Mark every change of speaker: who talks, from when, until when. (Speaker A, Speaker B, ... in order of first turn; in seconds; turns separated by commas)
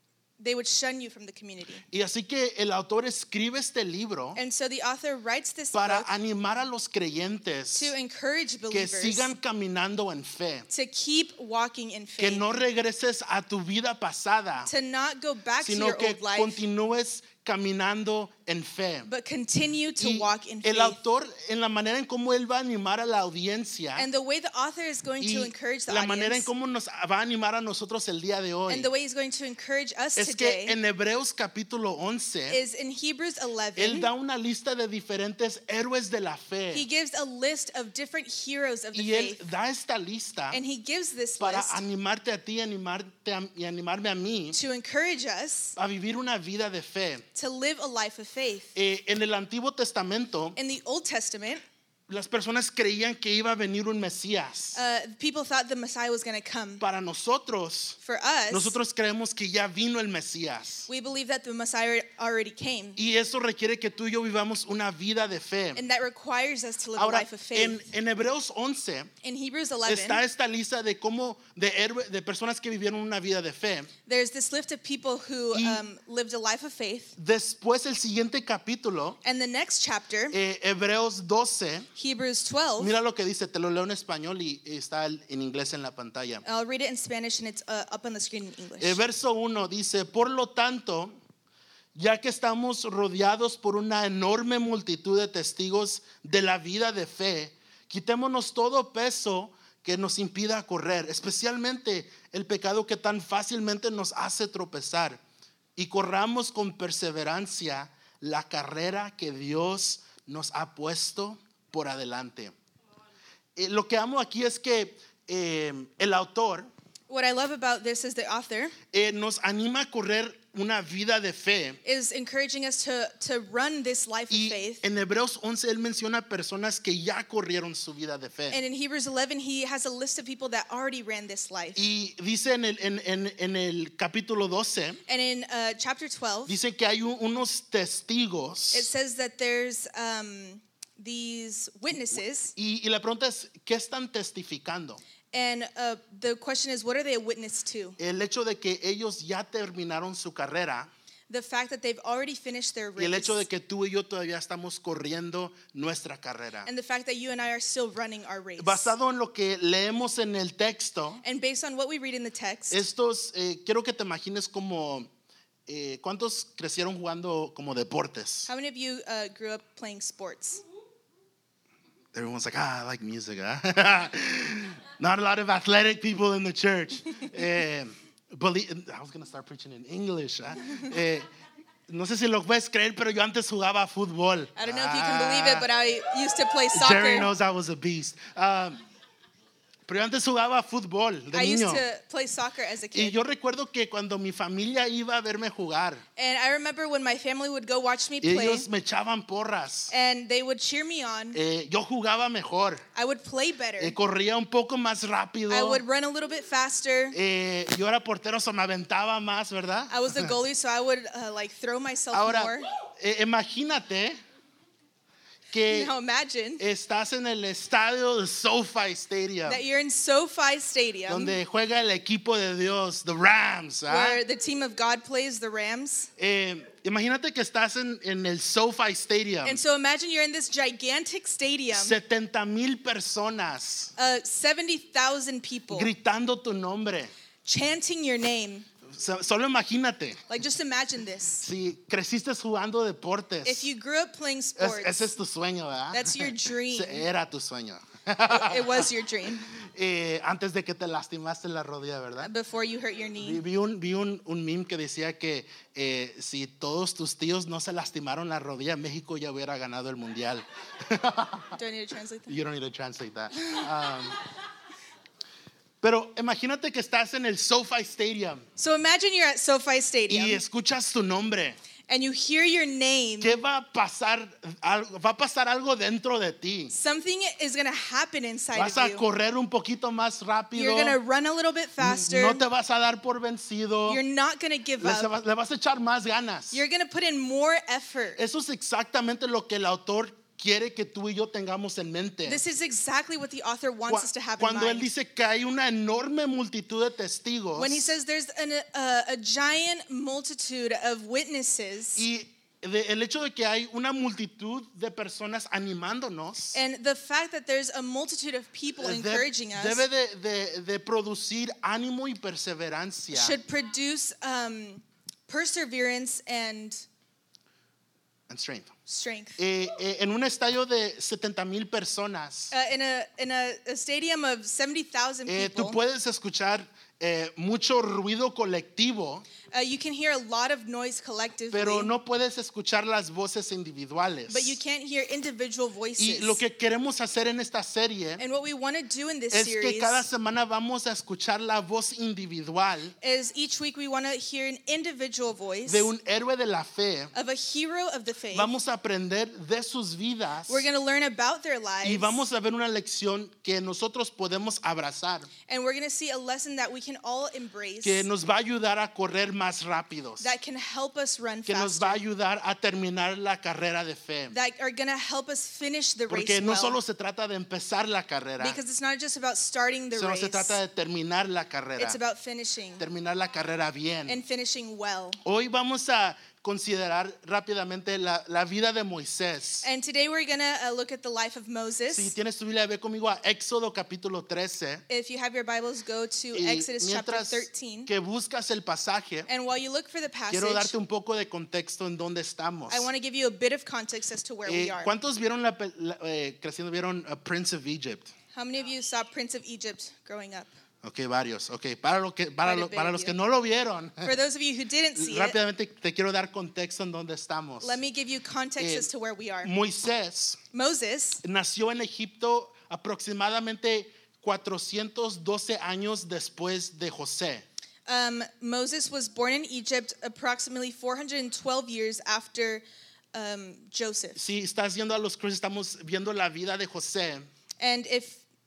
Speaker A: 0.4-1.8, Speaker B: 1.9-4.4, Speaker A: 4.3-6.1, Speaker B: 5.7-7.9, Speaker A: 7.7-9.3, Speaker B: 8.7-10.7, Speaker A: 10.7-12.4, Speaker B: 12.2-14.7, Speaker A: 14.7-16.6, Speaker B: 15.6-19.1, Speaker A: 19.1-21.0, Speaker B: 20.0-24.1, Speaker A: 23.9-26.5, Speaker B: 25.2-28.9, Speaker A: 28.7-30.8, Speaker B: 30.1-32.6, Speaker A: 32.5-34.1, Speaker B: 33.8-36.8, Speaker A: 36.7-39.4, Speaker B: 38.9-40.6, Speaker A: 40.5-41.8, Speaker B: 41.4-44.6, Speaker A: 44.5-45.8, Speaker B: 45.8-47.2, Speaker A: 47.3-48.8, Speaker B: 48.7-50.6, Speaker A: 50.5-51.6, Speaker B: 52.1-54.8, Speaker A: 54.7-56.8, Speaker B: 56.8-58.0, Speaker A: 58.0-58.8, Speaker B: 58.5-60.9, Speaker A: 60.9-63.0, Speaker B: 63.0-65.8, Speaker A: 65.8-67.8, Speaker B: 67.0-69.1, Speaker A: 69.2-70.2, Speaker B: 69.8-73.9, Speaker A: 74.0-77.2, Speaker B: 75.5-75.9, Speaker B: 77.2-79.2, Speaker A: 79.2-80.3, Speaker B: 80.3-81.9, Speaker A: 82.0-82.9, Speaker B: 82.8-86.4, Speaker A: 86.4-89.0, Speaker B: 88.8-91.1, Speaker B: 91.9-105.2, Speaker B: 105.8-112.5, Speaker B: 113.5-116.7, Speaker A: 117.1-118.7, Speaker B: 118.9-121.8, Speaker A: 121.8-124.8, Speaker B: 124.3-128.6, Speaker A: 128.5-131.8, Speaker B: 131.8-135.0, Speaker A: 135.1-136.6, Speaker B: 136.5-138.9, Speaker A: 138.7-142.5, Speaker B: 141.9-145.0, Speaker A: 145.3-148.0, Speaker B: 148.0-150.9, Speaker A: 151.3-153.4, Speaker B: 153.0-156.7, Speaker A: 156.6-158.9, Speaker B: 158.6-161.2, Speaker A: 161.2-162.8, Speaker B: 162.7-165.1, Speaker B: 165.7-168.5, Speaker A: 168.5-170.6, Speaker B: 172.1-181.2, Speaker B: 181.9-185.7, Speaker A: 184.6-187.3, Speaker B: 186.7-188.8, Speaker B: 189.9-191.8, Speaker A: 191.3-193.2, Speaker B: 192.9-196.0, Speaker A: 196.2-198.7, Speaker B: 198.2-199.9, Speaker A: 199.9-201.4, Speaker B: 201.3-202.8, Speaker A: 202.9-203.9, Speaker B: 203.8-205.8, Speaker A: 205.5-207.2, Speaker B: 207.1-210.3, Speaker A: 209.9-212.7, Speaker B: 212.1-214.2, Speaker B: 215.5-215.9, Speaker A: 215.7-216.6, Speaker B: 216.6-219.6, Speaker A: 219.4-221.4, Speaker B: 221.1-224.2, Speaker A: 223.9-226.1, Speaker B: 226.2-229.6, Speaker A: 229.4-232.0, Speaker B: 231.7-233.9, Speaker A: 234.0-235.9, Speaker B: 235.7-237.1, Speaker A: 237.4-238.7, Speaker B: 238.9-240.3, Speaker A: 240.3-241.4, Speaker B: 241.4-243.7, Speaker A: 243.4-245.2, Speaker B: 244.6-248.9, Speaker A: 245.9-247.1, Speaker A: 248.3-249.5, Speaker B: 249.6-252.3, Speaker A: 252.2-253.4, Speaker B: 253.2-261.6, Speaker A: 261.5-262.4, Speaker B: 262.3-264.2, Speaker B: 265.8-268.4, Speaker A: 268.6-270.4, Speaker B: 270.1-271.6, Speaker A: 271.9-273.4, Speaker B: 273.2-276.7, Speaker A: 276.7-279.0, Speaker B: 278.5-281.0, Speaker A: 280.5-282.4, Speaker B: 281.8-284.0, Speaker A: 283.9-285.1, Speaker B: 284.8-286.6, Speaker A: 286.5-288.2, Speaker B: 288.1-292.4, Speaker A: 292.2-294.9, Speaker B: 293.9-297.9, Speaker A: 297.6-302.0, Speaker B: 301.9-306.6, Speaker A: 306.5-309.8, Speaker B: 308.8-313.4, Speaker A: 313.1-316.8, Speaker B: 318.3-318.7, Speaker A: 318.9-319.4, Speaker B: 319.4-322.5, Speaker A: 322.5-325.8, Speaker B: 325.3-329.2, Speaker A: 329.5-331.9, Speaker B: 331.5-334.6, Speaker A: 334.3-336.4, Speaker B: 336.0-338.2, Speaker A: 338.2-340.1, Speaker B: 339.3-342.9, Speaker A: 343.0-345.9, Speaker B: 345.7-347.1, Speaker A: 347.1-348.5, Speaker B: 348.3-350.6, Speaker A: 350.5-352.2, Speaker B: 351.8-355.3, Speaker A: 355.5-358.1, Speaker B: 357.8-360.3, Speaker A: 360.2-362.0, Speaker B: 361.5-364.4, Speaker A: 364.3-366.8, Speaker B: 366.1-368.6, Speaker A: 368.4-370.6, Speaker B: 369.9-372.0, Speaker A: 371.8-372.8, Speaker B: 372.8-374.2, Speaker A: 374.1-375.2, Speaker B: 375.2-379.7, Speaker A: 379.6-382.1, Speaker B: 381.9-384.8, Speaker A: 384.9-387.9, Speaker B: 386.3-389.3, Speaker A: 389.3-390.7, Speaker B: 390.3-392.9, Speaker A: 392.7-394.9, Speaker B: 394.4-398.1, Speaker A: 398.3-400.5, Speaker B: 400.8-404.1, Speaker A: 402.4-403.1, Speaker A: 404.0-405.4, Speaker B: 404.9-407.8, Speaker A: 407.6-409.5, Speaker B: 408.6-408.9, Speaker B: 409.4-410.4, Speaker A: 410.5-411.2, Speaker B: 411.2-417.4, Speaker A: 417.9-424.2, Speaker B: 424.1-427.3, Speaker A: 427.6-428.2